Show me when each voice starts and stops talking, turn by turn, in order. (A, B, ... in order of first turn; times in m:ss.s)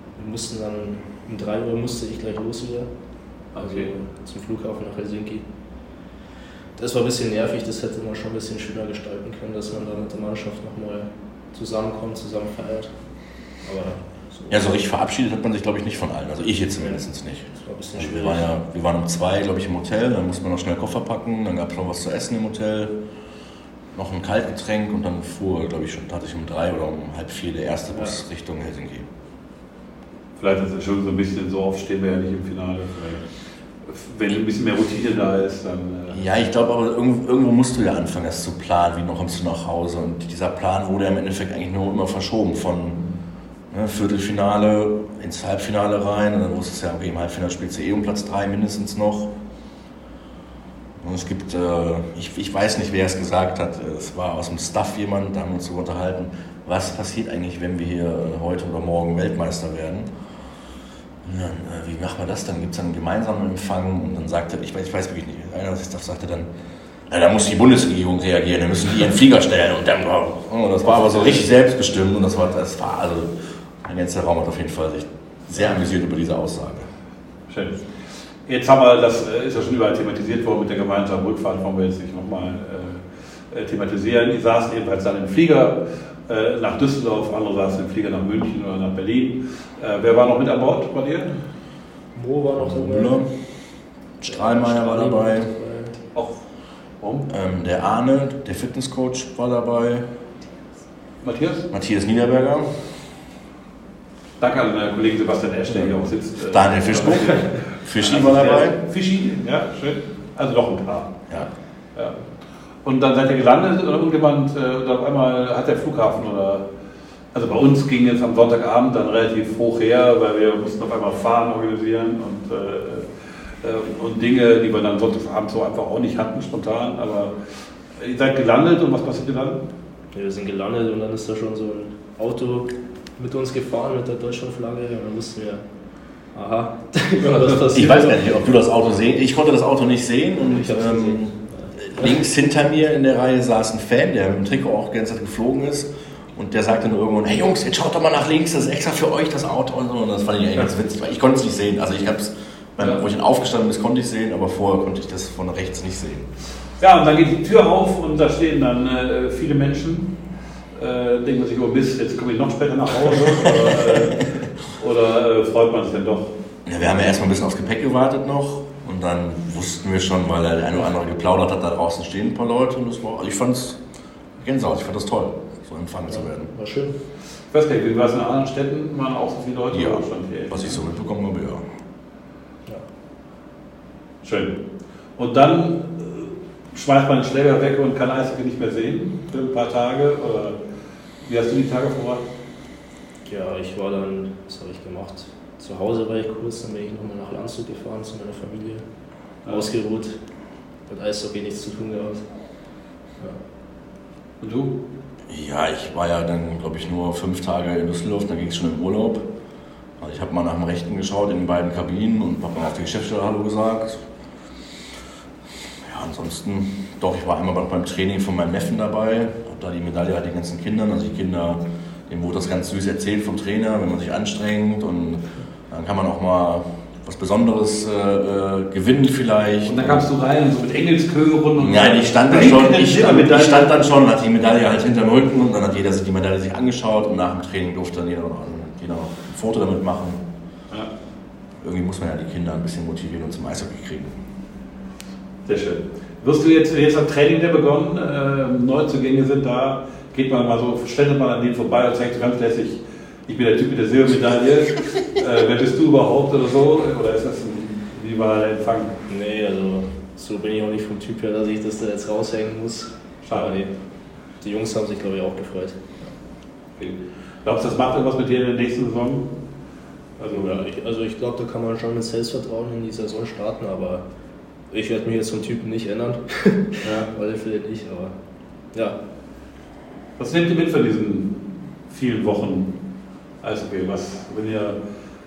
0:00.2-0:02.9 A
0:03.6-0:03.9 B
0:03.6-0:05.4 A
0:06.8-0:12.9 A
0:13.6-0:14.7 A
0:14.5-0:23.0 C
0:16.8-0:18.5 A
0:23.9-0:29.1 C
0:30.4-0:33.3 B
0:33.9-0:36.2 B
0:36.1-0:43.0 C
0:43.7-0:49.3 C
0:51.0-1:00.1 C
1:01.2-1:06.5 C
1:07.1-1:16.9 C
1:10.9-1:11.5 B
1:17.5-1:17.8 B
1:18.5-1:31.4 B
1:32.2-1:33.3 A
1:32.6-1:33.3 C
1:34.2-1:35.5 C
1:34.2-1:36.0 A
1:37.0-1:37.3 B
1:37.3-1:40.1 C
1:41.2-1:41.7 B
1:41.7-1:42.8 C
1:44.4-1:51.3 B
1:46.5-1:48.8 C
1:52.0-1:52.2 B
1:52.8-1:56.6 B
1:57.3-2:09.6 B
2:10.1-2:15.6 A
2:16.3-2:18.4 A
2:17.2-2:17.6 B
2:17.7-2:36.3 C
2:20.5-2:22.1 A
2:36.8-2:40.2 B
2:40.8-2:46.3 B
2:46.7-2:53.8 C
2:54.4-2:56.5 C
2:56.1-2:57.0 A
2:57.5-3:00.8 B
2:59.7-3:01.6 C
3:04.2-3:04.6 B
3:05.2-3:10.6 B
3:11.2-3:12.2 B
3:13.3-3:18.8 A
3:19.5-3:20.2 A
3:20.9-3:22.3 A
3:24.4-3:24.8 B
3:25.3-3:29.3 C
3:30.0-3:34.0 C
3:35.8-3:50.0 C
3:49.7-3:53.9 B
3:51.6-4:00.2 C
4:01.6-4:04.2 C
4:05.4-4:18.9 B
4:19.1-4:23.7 A
4:23.2-4:23.5 B
4:24.4-4:26.1 A
4:26.8-4:29.4 B
4:30.2-4:30.6 B
4:30.3-4:34.0 A
4:34.7-4:38.2 A
4:36.8-4:37.1 B
4:38.7-4:39.0 A
4:40.2-4:42.7 B
4:43.4-4:44.8 B